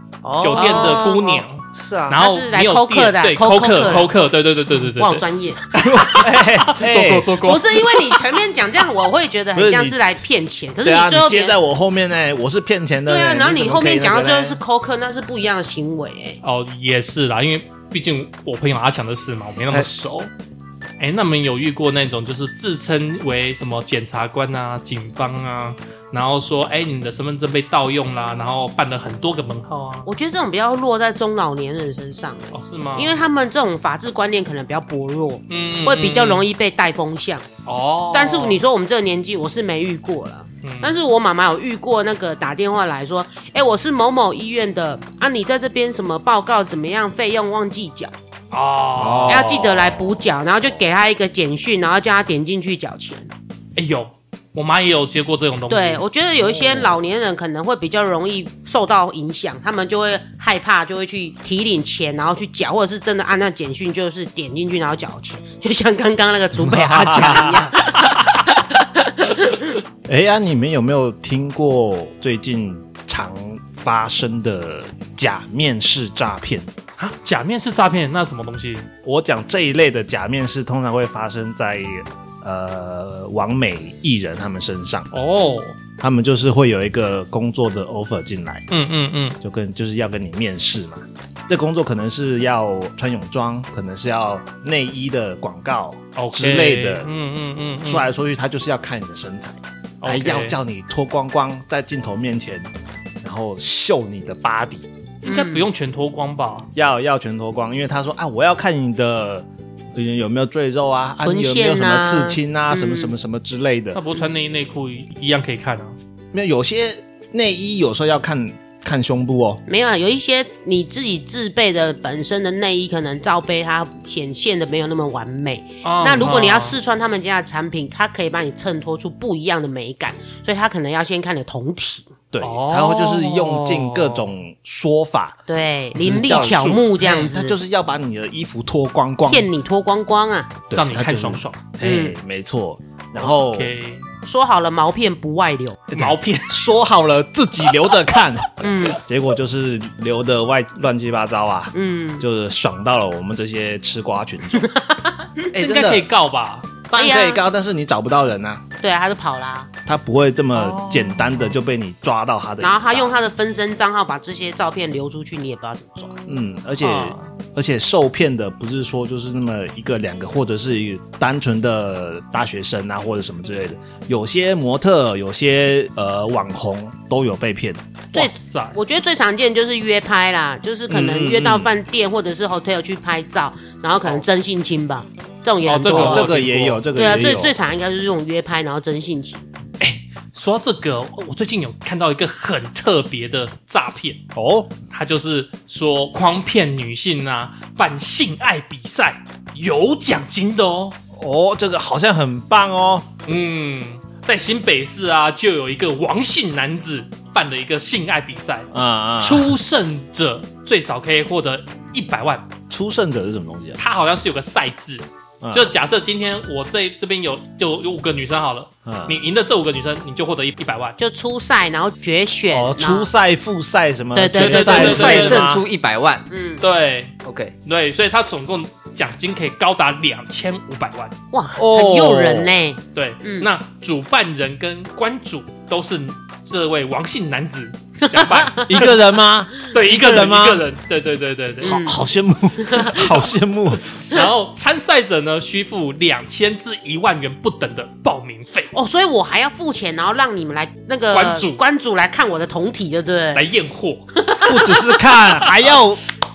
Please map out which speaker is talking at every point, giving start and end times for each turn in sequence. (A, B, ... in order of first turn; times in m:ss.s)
0:00.2-0:01.1 A
0:00.4-0:05.2 B
0:00.5-0:01.4 C
0:01.7-0:02.2 A
0:02.1-0:04.1 C
0:04.8-0:05.7 C
0:05.7-0:07.3 D
0:05.8-0:08.2 B
0:07.4-0:11.6 C
0:09.5-0:10.0 D
0:10.8-0:14.6 D
0:13.1-0:16.4 C
0:16.4-0:20.3 B
0:21.0-0:30.1 B
0:30.0-0:37.4 C
0:32.5-0:33.2 B
0:35.5-0:36.4 B
0:37.6-0:38.6 B
0:38.1-0:48.1 C
0:40.6-0:41.0 B
0:48.5-0:49.8 B
0:49.0-0:50.2 D
0:49.3-0:53.3 C
0:53.8-0:56.0 B
0:55.7-1:09.7 C
0:56.5-0:56.9 D
1:06.6-1:07.7 D
1:10.0-1:16.7 D
1:17.0-1:18.9 B
1:19.0-1:25.1 D
1:25.1-1:25.8 B
1:26.0-1:28.6 D
1:28.7-1:29.4 B
1:29.4-1:37.1 D
1:36.2-1:38.0 B
1:37.8-1:42.7 D
1:40.0-1:40.6 B
1:43.2-1:44.9 D
1:45.2-1:46.7 B
1:45.2-1:45.6 C
1:46.7-1:54.0 D
1:51.2-1:53.1 C
1:53.9-1:56.0 B
1:56.3-1:59.6 D
1:59.7-2:12.1 C
2:05.8-2:06.8 B
2:12.3-2:15.4 D
2:12.4-2:14.3 B
2:15.5-2:17.6 C
2:16.0-2:19.5 D
2:16.3-2:16.7 B
2:19.3-2:20.5 C
2:20.7-2:23.7 D
2:20.7-2:21.6 B
2:21.8-2:22.2 C
2:23.2-2:24.0 B
2:24.2-2:25.8 C
2:25.9-2:34.7 D
2:25.9-2:26.6 B
2:28.6-2:29.0 C
2:31.7-2:32.2 C
2:34.6-2:35.4 C
2:35.5-2:36.0 D
2:35.5-2:36.8 B
2:36.9-2:38.6 D
2:36.9-2:37.4 C
2:38.8-2:39.7 C
2:39.8-2:43.2 D
2:40.5-2:41.5 B
2:42.6-2:46.2 C
2:46.2-2:57.8 D
2:46.8-2:47.3 B
2:58.1-2:58.8 B
2:58.1-3:06.3 C
3:00.9-3:01.7 D
3:05.6-3:06.8 B
3:05.9-3:07.5 D
3:06.9-3:09.5 C
3:09.8-3:14.2 B
3:14.3-3:14.7 D
3:14.9-3:21.0 B
3:21.1-3:23.2 D
3:23.2-3:28.7 B
3:28.7-3:29.6 D
3:29.2-3:32.5 B
3:32.7-3:33.8 D
3:33.8-3:41.0 B
3:35.4-3:35.7 D
3:38.8-3:39.2 D
3:41.0-3:43.1 C
3:42.5-3:45.6 D
3:44.1-3:45.2 C
3:44.3-3:45.4 B
3:44.6-3:46.3 A
3:46.3-3:46.6 C
3:46.6-3:47.1 B
3:47.2-3:47.5 A
3:47.6-3:51.1 B
3:51.3-3:53.5 C
3:51.6-3:52.5 D
3:52.9-3:58.9 B
3:58.0-3:58.7 C
3:58.7-4:00.6 D
3:59.6-4:01.8 B
4:01.6-4:04.0 D
4:01.6-4:02.0 C
4:02.6-4:03.0 C
4:04.1-4:08.7 B
4:08.7-4:13.4 C
4:11.1-4:11.6 B
4:13.3-4:14.0 B
4:14.2-4:14.9 C
4:14.4-4:16.0 D